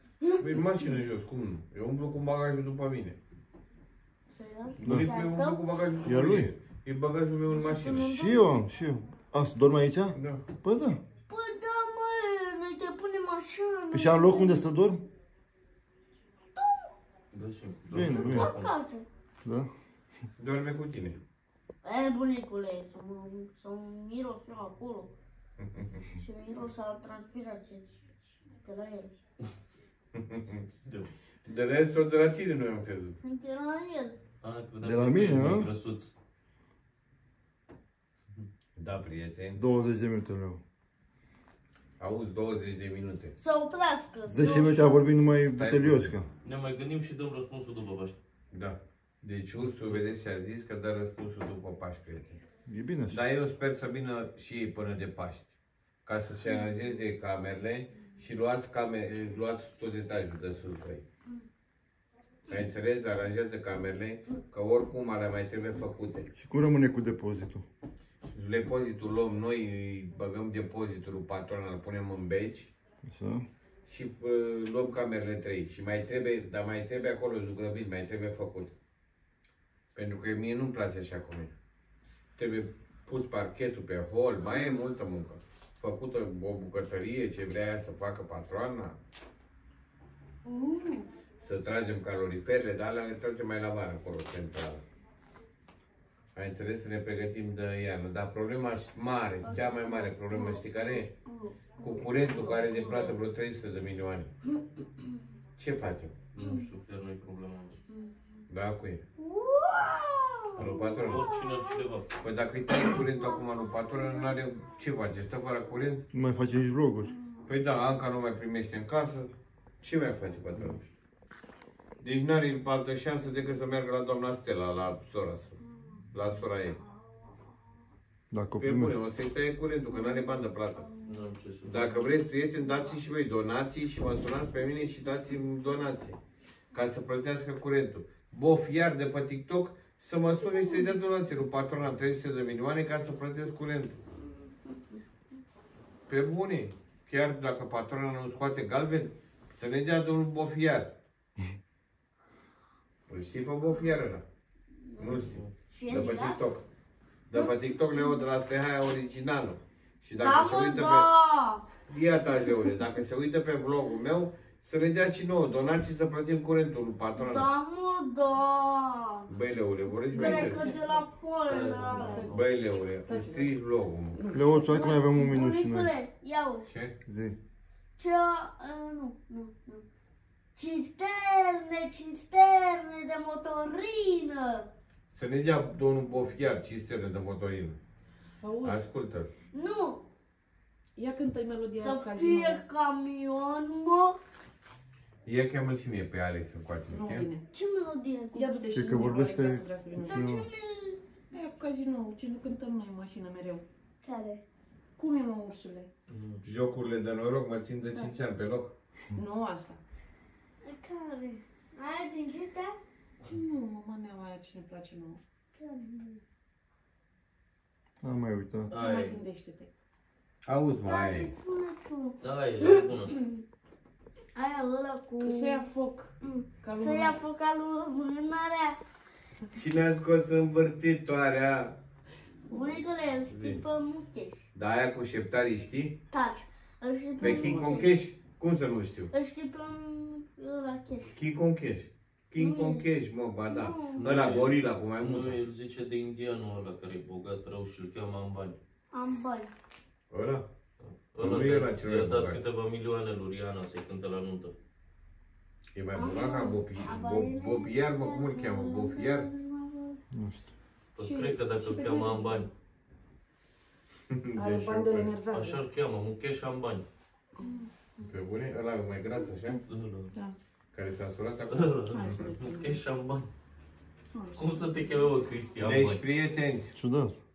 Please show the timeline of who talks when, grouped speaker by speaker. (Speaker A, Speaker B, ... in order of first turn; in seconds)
Speaker A: 0.4-3.2, 4.8-8.1, 10.1-10.4, 20.4-21.2, 25.8-26.0, 30.1-30.7, 31.4-33.2, 38.8-39.6, 42.0-43.4, 45.5-46.1, 48.5-52.4, 53.1-55.5, 56.0-61.0, 62.5-66.3, 68.3-72.7, 73.9-78.7, 79.9-81.5, 82.4-89.0, 91.4-94.8, 96.3-101.1, 101.8-104.3, 105.6-106.2, 108.5-109.0, 110.6-111.2, 112.2-116.0, 117.5-120.8, 122.0-125.6, 126.1-126.8, 128.6-130.9, 131.7-136.2, 136.7-144.0, 146.1-150.9, 153.1-154.2, 155.0-156.6, 157.3-161.1, 161.9-167.5, 169.3-170.6, 172.3-174.2, 176.7-176.9, 185.1-187.8, 188.6-189.3, 195.2-197.3, 206.4-208.7, 218.7-219.1, 220.4-221.3, 229.5-231.8, 233.3-233.6, 234.5-236.0, 237.2-239.1, 241.1-245.4, 250.1-250.5, 251.2-252.4, 255.8-259.3, 264.1-265.1, 268.0-269.6, 270.7-272.2, 275.6-276.7
Speaker B: 4.3-5.6, 7.5-8.6, 11.3-14.6, 16.6-16.9, 18.1-19.1, 21.8-25.1, 26.1-27.9, 28.6-29.1, 33.2-34.2, 43.4-45.0, 84.4-84.9, 90.5-91.1, 99.5-103.2, 106.4-106.7, 107.9-108.2, 109.2-111.8, 113.2-114.3, 117.1-117.5, 125.6-126.1, 126.7-127.6, 129.9-131.2, 140.5-140.9, 154.8-156.4, 160.2-161.7, 167.2-169.3, 170.1-172.3, 174.5-176.8, 178.0-179.9, 180.6-184.7, 189.5-190.1, 191.8-194.2, 197.5-199.1, 199.9-201.0, 204.0-204.4, 210.6-212.8, 215.5-216.2, 220.8-222.9, 224.3-225.7, 226.2-228.8, 232.5-234.4, 236.1-238.0, 239.1-241.2, 242.4-242.9, 243.5-244.1, 248.9-249.5, 255.9-260.0
Speaker C: 4.8-5.1, 6.0-6.5, 8.0-11.0, 13.9-15.1, 17.9-18.5, 19.4-19.7, 34.8-35.7, 39.5-40.6, 44.3-46.3, 52.7-53.2, 66.3-67.7, 73.0-73.5, 116.1-117.1, 128.3-129.0, 174.3-175.9, 177.1-177.4, 198.7-200.5, 218.0-218.7, 260.1-260.5, 276.8-277.2
Speaker D: 17.3-18.7, 30.8-31.1, 34.4-36.1, 46.4-48.2, 106.3-107.8, 110.6-112.1, 131.1-132.1, 171.3-172.5, 206.1-206.4, 222.2-223.2, 243.9-248.6, 250.8-254.5, 261.0-262.5, 265.3-266.9, 269.7-270.1, 271.5-273.3, 274.4-276.0
Speaker E: 170.1-171.0, 171.9-172.4, 173.1-173.5, 174.1-174.6, 188.4-188.8, 191.0-192.6, 196.9-197.5, 198.3-200.3, 201.3-203.7, 205.0-205.9, 209.2-209.8, 213.2-215.2, 218.7-219.7, 225.2-227.2, 261.0-262.5, 264.4-265.6, 271.9-272.8, 274.1-275.0